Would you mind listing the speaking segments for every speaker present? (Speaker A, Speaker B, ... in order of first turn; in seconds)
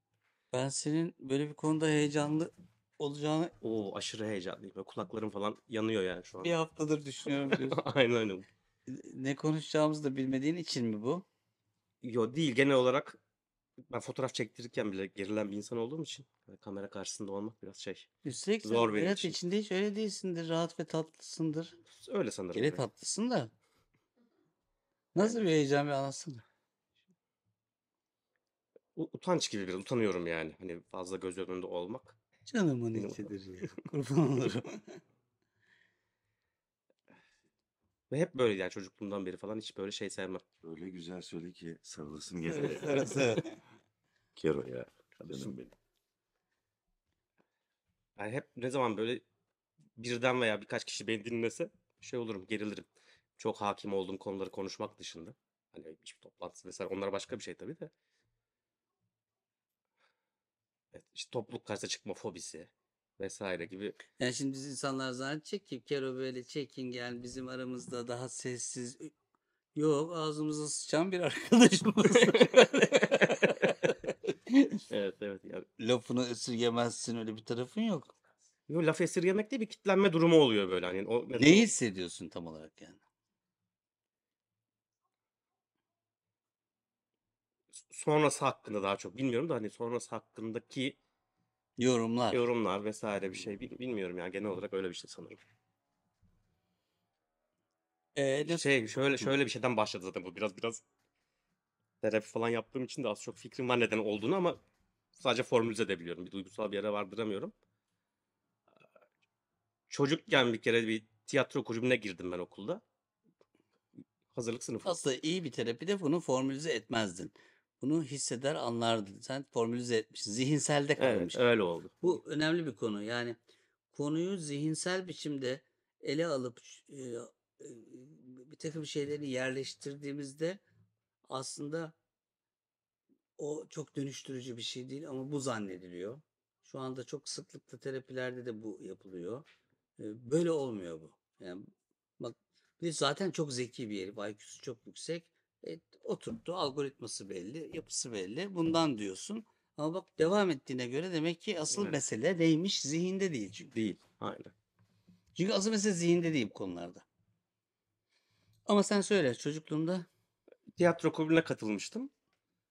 Speaker A: 0.5-3.5, 6.4-7.8, 8.9-11.2, 18.2-21.8, 22.5-23.5, 25.1-26.4, 32.5-35.0, 42.5-43.5, 64.2-69.1, 69.7-74.8, 75.8-78.1, 81.4-83.0, 91.8-92.4, 98.2-98.7, 114.8-121.4, 122.0-123.4, 123.9-130.6, 131.3-131.9, 133.4-139.4, 140.0-141.7, 142.2-153.8, 155.4-157.1, 158.7-160.1
Speaker B: 3.6-6.5, 7.5-8.5, 12.0-13.2, 13.9-18.1, 18.6-19.4, 22.0-22.8, 28.9-32.2, 33.0-33.8, 38.1-40.4, 42.5-43.4, 48.2-49.2, 50.0-57.9, 60.9-64.0, 72.1-73.6, 74.9-75.7, 78.7-81.7, 87.8-91.0, 92.3-95.4, 98.5-100.8, 102.0-104.6, 105.1-107.5, 109.9-112.8, 114.3-115.0, 121.0-122.1, 151.7-152.0, 153.7-154.5, 160.8-162.1
Speaker C: 40.6-43.4, 44.4-45.6